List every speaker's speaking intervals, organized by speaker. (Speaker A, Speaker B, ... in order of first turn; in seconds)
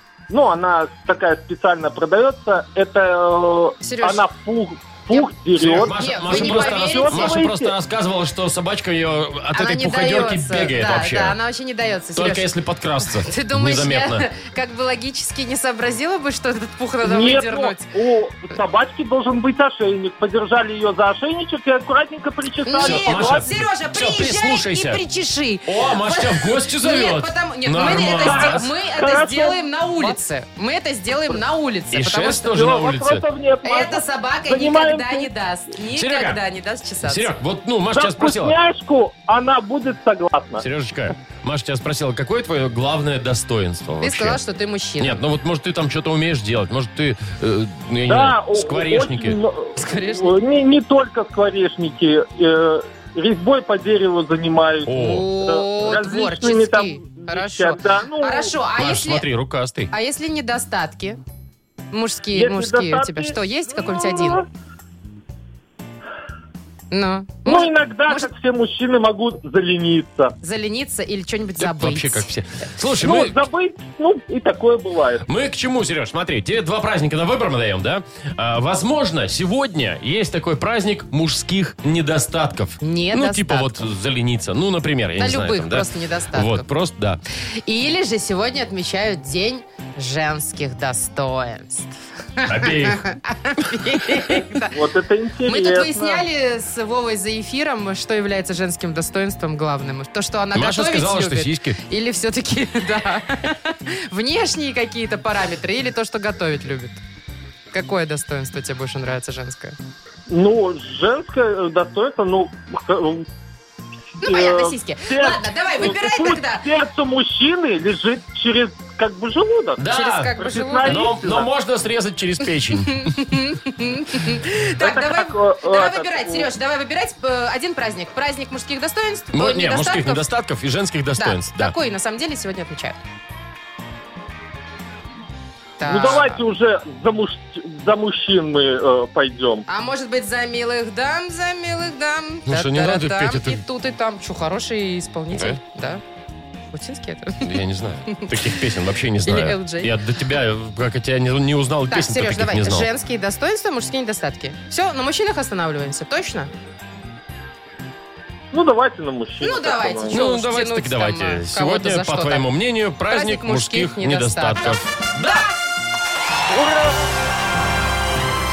Speaker A: 0.3-7.7, 17.0-23.5, 28.2-30.1, 32.5-35.3, 37.9-40.6, 48.1-58.5, 62.3-64.4, 67.4-70.3, 73.0-75.2, 94.7-96.2, 110.3-113.2, 114.2-119.8, 120.4-121.5, 124.8-126.5, 135.8-139.7, 158.5-160.2, 166.5-166.9
Speaker B: 3.8-4.3, 5.9-7.4, 9.5-12.4, 13.1-17.9, 22.6-32.6, 33.6-37.4, 44.0-45.2, 49.8-50.3, 55.0-59.2, 59.9-61.2, 61.9-64.4, 66.9-68.3, 70.4-72.3, 82.8-83.7, 85.2-86.6, 87.7-94.8, 95.4-107.0, 107.7-109.8, 114.2-116.6, 119.8-121.1, 122.8-130.2, 131.2-133.0, 135.8-136.4, 139.7-146.0, 146.7-148.4, 149.2-149.9, 151.9-156.5, 159.4-162.5, 163.1-165.5
Speaker C: 5.6-11.4, 12.1-14.2, 22.8-25.0, 25.6-28.7, 31.9-33.2, 35.9-36.4, 37.0-38.5, 40.6-44.4, 45.0-49.4, 54.9-55.3, 58.8-59.9, 71.6-73.4, 75.2-87.2, 92.4-93.0, 100.5-101.8, 119.8-123.2, 129.3-131.8, 142.5-143.6, 145.3-145.6, 147.4-152.9, 160.1-165.4